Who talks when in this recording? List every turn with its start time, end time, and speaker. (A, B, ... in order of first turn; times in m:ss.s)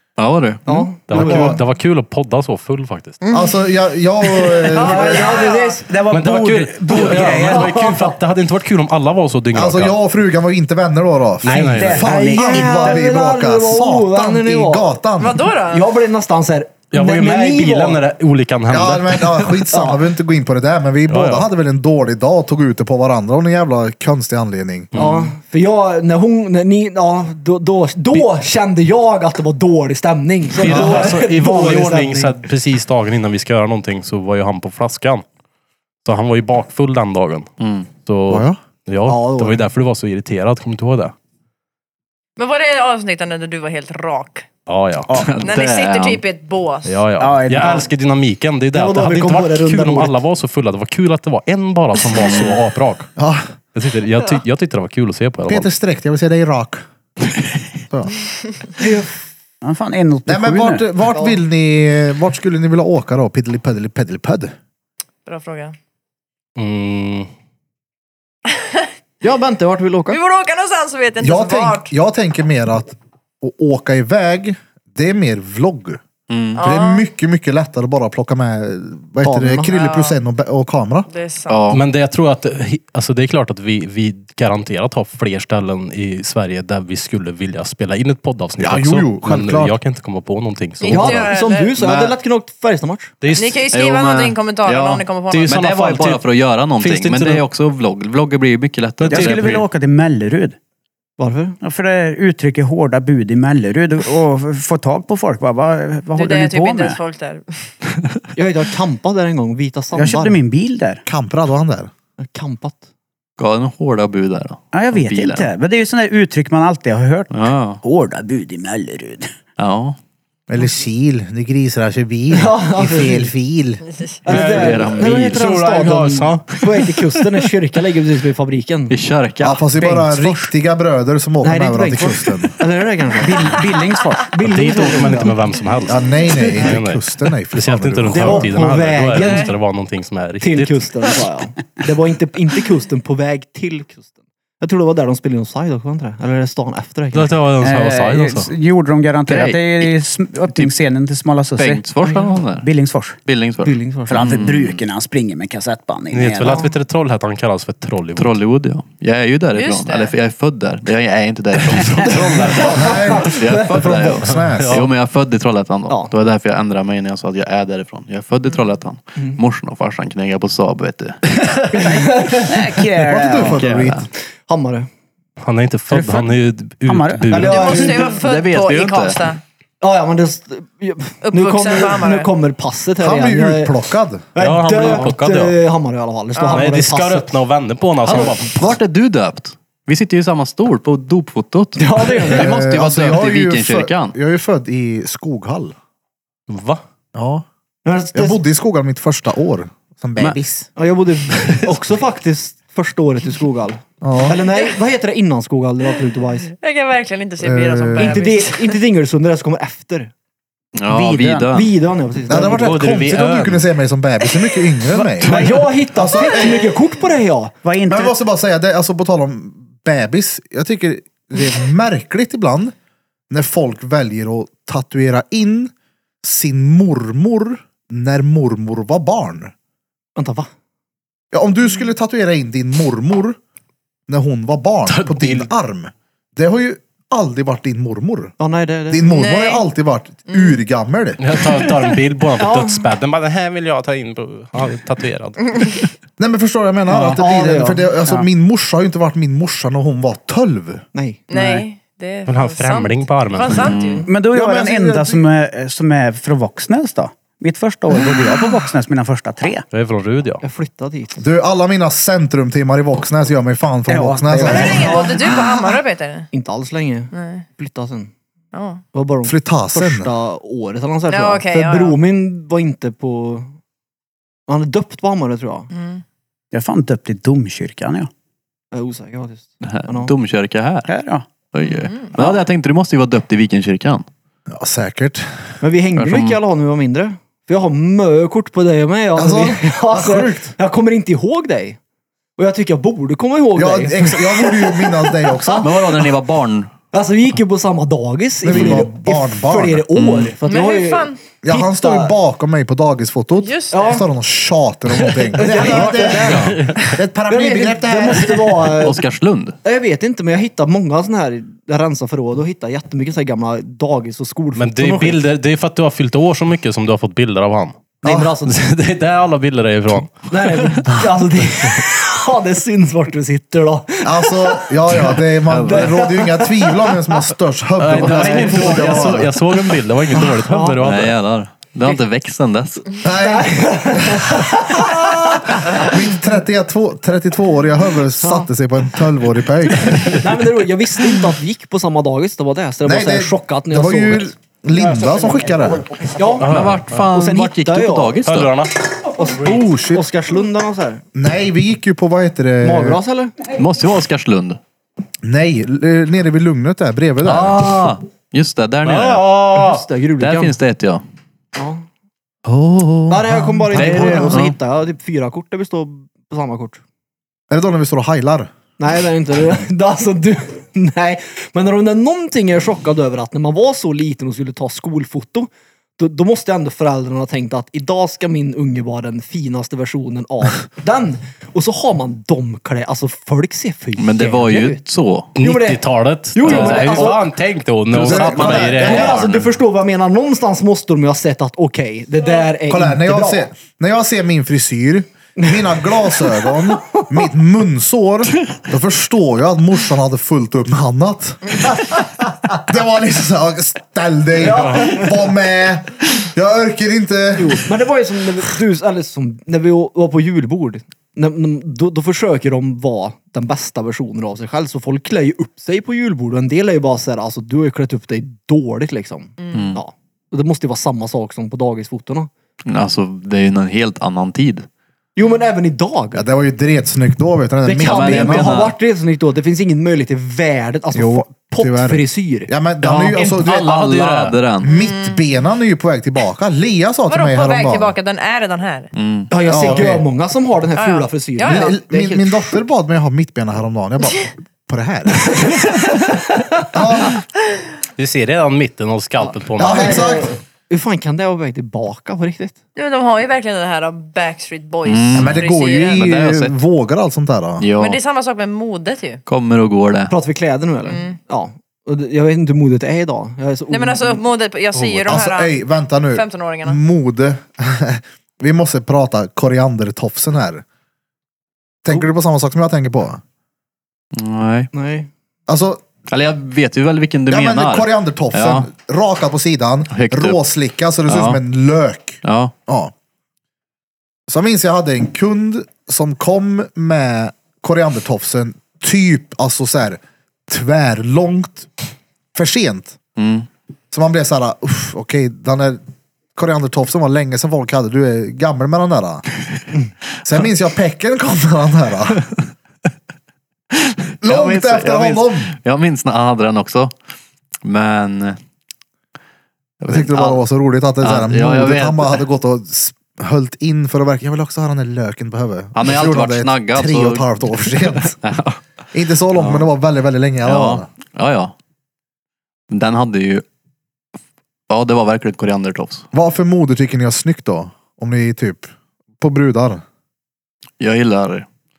0:00.2-0:00.7 A
0:00.7-0:01.6 B
0:01.1-0:03.2 C
0:01.1-0:01.6 D
0:03.2-0:03.6 E
0:03.3-0:05.4 D
0:04.5-0:05.8 E
0:04.7-0:05.8 B
0:04.9-0:08.0 F
0:06.1-0:10.0 C
0:06.9-0:08.1 B
0:09.5-0:15.5 D
0:11.4-0:12.1 C
0:11.4-0:13.0 F
0:11.8-0:14.9 B
0:15.2-0:15.9 E
0:15.7-0:18.0 B
0:16.9-0:19.6 C
0:18.7-0:24.9 D
0:21.1-0:21.5 C
0:24.9-0:25.3 C
0:25.0-0:32.4 B
0:30.5-0:35.2 C
0:30.7-0:31.0 D
0:36.0-0:37.5 C
0:37.6-0:37.9 A
0:38.0-0:41.1 C
0:38.3-0:38.6 D
0:39.1-0:39.6 B
0:42.4-0:44.5 E
0:44.7-0:45.1 C
0:45.1-0:45.3 F
0:45.2-0:46.2 A
0:45.4-0:47.0 E
0:46.9-0:53.1 C
0:47.2-0:47.9 F
0:48.7-0:50.2 B
0:52.2-0:52.6 A
0:53.2-0:53.5 D
0:53.8-0:55.7 C
0:55.5-0:56.8 D
0:58.8-0:59.2 B
0:59.6-1:00.8 F
1:00.3-1:04.5 D
1:01.1-1:01.4 B
1:05.2-1:05.7 E
1:06.6-1:07.3 C
1:08.5-1:08.9 E
1:09.2-1:10.2 B
1:10.1-1:11.9 E
1:11.2-1:16.0 D
1:16.3-1:16.6 A
1:16.6-1:17.0 E
1:16.6-1:21.1 D
1:19.2-1:19.7 B
1:19.7-1:20.2 E
1:21.1-1:21.7 E
1:21.5-1:21.8 A
1:21.7-1:31.3 C
1:28.6-1:29.8 D
1:30.8-1:31.8 E
1:30.9-1:33.1 B
1:31.8-1:32.1 A
1:33.2-1:33.6 C
1:33.3-1:35.6 E
1:33.7-1:39.6 A
1:35.3-1:36.2 C
1:36.8-1:37.4 C
1:39.0-1:39.6 C
1:39.1-1:40.6 F
1:41.2-1:41.6 B
1:41.6-1:47.0 F
1:46.2-1:47.7 E
1:48.4-1:50.4 B
1:50.0-1:51.0 F
1:51.1-1:51.9 D
1:52.2-1:52.8 B
1:53.4-1:55.5 A
1:54.7-1:59.3 F
1:57.3-1:57.8 A
1:59.6-2:00.0 A
2:00.5-2:03.8 D
2:02.3-2:03.3 B
2:03.9-2:04.2 E
2:04.2-2:09.0 B
2:04.3-2:06.6 C
2:04.3-2:05.4 A
2:08.9-2:09.7 A
2:09.4-2:12.6 D
2:09.8-2:10.5 F
2:11.4-2:13.6 B
2:13.2-2:15.3 F
2:14.3-2:15.3 B
2:14.4-2:20.9 C
2:15.9-2:18.6 D
2:18.1-2:19.5 B
2:19.2-2:19.6 E
2:20.4-2:24.1 B
2:24.6-2:27.4 B
2:27.1-2:28.5 C
2:27.6-2:31.8 F
2:29.3-2:29.9 A
2:31.6-2:32.7 A
2:32.6-2:33.2 F
2:33.2-2:34.8 A
2:33.6-2:34.2 B
2:34.1-2:36.6 F
2:36.1-2:38.4 C
2:38.2-2:51.2 A
2:39.6-2:40.2 E
2:41.7-2:43.2 C
2:42.5-2:43.9 B
2:42.7-2:44.9 D
2:44.3-2:44.9 C
2:51.7-2:52.6 B
2:51.7-2:53.6 F
2:53.0-2:54.1 D
2:53.4-2:54.1 A
2:54.5-2:54.9 B
2:55.4-2:58.0 C
2:56.9-2:57.8 F
2:57.3-2:58.2 B
2:57.4-2:59.4 E
2:58.2-2:59.2 A
2:59.8-3:03.8 B
3:01.2-3:02.3 E
3:03.0-3:04.3 D
3:04.3-3:07.4 B
3:04.4-3:05.6 C
3:06.4-3:08.7 C
3:08.1-3:14.2 A
3:11.8-3:12.5 B
3:12.3-3:15.7 D
3:16.5-3:16.8 C
3:17.1-3:17.4 D
3:17.8-3:18.4 B
3:18.1-3:20.7 D
3:20.8-3:26.5 B
3:24.0-3:24.4 D
3:24.5-3:24.8 E
3:26.6-3:28.8 E
3:27.4-3:28.3 D
3:28.0-3:30.1 B
3:30.8-3:31.7 A
3:30.9-3:31.5 F
3:31.5-3:32.8 B
3:32.3-3:35.4 D
3:32.4-3:33.6 C
3:35.2-3:35.5 A
3:35.2-3:37.5 B
3:35.9-3:36.7 D
3:37.6-3:38.2 F
3:37.9-3:42.7 D
3:43.3-3:45.7 D
3:46.2-3:49.5 D
3:50.2-3:50.5 B
3:51.3-3:53.4 D
3:54.1-3:58.4 D
3:54.9-3:55.5 C
3:58.4-3:59.2 B
3:58.9-4:01.2 D
3:59.1-3:59.6 E
4:00.3-4:00.6 E
4:01.2-4:05.7 C
4:02.4-4:02.9 B
4:06.2-4:10.8 D
4:06.9-4:08.0 B
4:10.9-4:11.2 B
4:11.3-4:14.1 E
4:11.3-4:11.6 F
4:12.3-4:13.8 C
4:13.5-4:14.1 A
4:14.1-4:19.7 F
4:14.3-4:15.3 D
4:19.7-4:20.4 C
4:20.4-4:21.2 B
4:21.2-4:25.1 D
4:23.9-4:25.0 F
4:24.4-4:26.3 E
4:24.5-4:25.6 B
4:26.3-4:28.1 B
4:27.1-4:27.4 E
4:28.5-4:28.8 E
4:28.9-4:33.5 B
4:29.2-4:30.1 D
4:31.1-4:32.0 E
4:34.5-4:35.7 B
4:35.7-4:36.0 E
4:36.5-4:38.1 F
4:38.7-4:40.1 B
4:39.6-4:40.9 A
4:40.9-4:41.3 F
4:41.5-4:44.1 A
4:41.6-4:42.2 E
4:44.5-4:45.4 D
4:45.6-4:51.8 B
4:46.0-4:46.4 A
4:49.2-4:50.5 D
4:52.4-4:55.9 B
4:53.6-4:55.7 D
4:55.6-4:56.7 A
4:56.9-5:02.2 B
4:58.4-4:59.9 D
4:58.5-4:58.9 A
5:00.0-5:00.3 A
5:00.4-5:01.2 E
5:01.4-5:08.4 D
5:03.4-5:04.0 E
5:03.7-5:04.0 B
5:05.3-5:06.7 B
5:06.2-5:06.8 C
5:07.3-5:09.0 B
5:08.7-5:09.6 A
5:09.6-5:15.2 B
5:14.6-5:17.8 C
5:18.0-5:18.6 B
5:18.0-5:18.3 D
5:18.4-5:20.8 C
5:20.3-5:27.2 B
5:24.0-5:29.7 D
5:25.5-5:26.0 A
5:27.8-5:31.2 C
5:28.4-5:28.8 B
5:30.1-5:30.8 B
5:30.8-5:32.9 A
5:33.0-5:33.7 D
5:33.2-5:36.0 B
5:35.6-5:40.2 D
5:38.2-5:38.5 B
5:39.9-5:40.2 C
5:40.1-5:44.3 B
5:42.8-5:45.9 D
5:44.8-5:46.4 F
5:46.2-5:48.1 B
5:46.4-5:47.1 C
5:46.5-5:48.5 A
5:48.3-5:49.1 C
5:49.2-5:51.0 B
5:49.4-5:50.0 D
5:51.2-5:53.0 D
5:52.6-5:53.3 B
5:53.6-5:54.6 A
5:55.2-5:57.7 D
5:57.2-5:59.3 A
5:58.8-5:59.8 C
5:59.3-6:00.6 B
6:00.2-6:01.0 A
6:01.6-6:01.8 B
6:02.5-6:04.4 D
6:03.1-6:06.8 B
6:03.7-6:04.6 A
6:07.5-6:08.5 D
6:08.8-6:24.8 B
6:24.0-6:25.3 A
6:25.4-6:29.3 C
6:25.4-6:25.8 B
6:26.3-6:27.3 B
6:26.4-6:27.1 A
6:27.9-6:29.2 D
6:28.0-6:33.5 B
6:28.6-6:29.4 A
6:32.7-6:47.6 D
6:35.4-6:37.2 B
6:44.4-6:45.2 B
6:47.4-7:02.3 B
6:59.4-6:59.8 E
6:59.5-6:59.8 A
7:02.7-7:04.7 A
7:05.2-7:06.3 B
7:06.1-7:08.6 D
7:07.6-7:13.3 B
7:07.8-7:08.7 A
7:10.9-7:13.8 D
7:13.1-7:14.4 C
7:13.4-7:14.7 A
7:14.6-7:17.9 D
7:14.6-7:15.3 E
7:17.1-7:18.9 E
7:19.0-7:19.3 A
7:19.3-7:22.5 B
7:19.5-7:20.1 D
7:20.8-7:21.8 E
7:21.4-7:25.6 D
7:25.4-7:26.3 B
7:26.7-7:27.2 D
7:28.0-7:30.2 C
7:29.2-7:32.6 B
7:29.6-7:30.3 D
7:32.8-7:36.1 E
7:34.9-7:36.6 A
7:35.1-7:37.7 D
7:37.6-7:38.0 A
7:37.8-7:39.2 E
7:39.3-7:40.1 A
7:40.1-7:44.2 B
7:40.8-7:41.2 E
7:43.7-7:45.6 E
7:45.1-7:50.6 D
7:46.1-7:46.8 E
7:51.8-7:53.2 D
7:54.1-7:54.7 A
7:54.7-7:55.1 B
7:55.5-7:55.8 D
7:56.1-7:58.7 A
7:57.3-8:02.9 D
7:59.9-8:00.4 A
8:01.1-8:01.4 A
8:02.2-8:02.5 A
8:04.3-8:11.7 D
8:12.4-8:13.0 D
8:13.2-8:13.5 A
8:13.9-8:15.8 D
8:16.4-8:19.2 D
8:20.2-8:22.2 D
8:23.8-8:26.9 A
8:24.2-8:25.6 D
8:27.6-8:28.4 A
8:29.8-8:30.4 A
8:29.9-8:38.2 D
8:31.0-8:32.2 A
8:35.8-8:38.6 A
8:38.9-8:40.9 D
8:39.3-8:39.7 A
8:40.4-8:41.5 A
8:42.7-8:43.4 A
8:44.7-8:46.1 A
8:46.1-8:49.8 D
8:50.8-8:51.5 A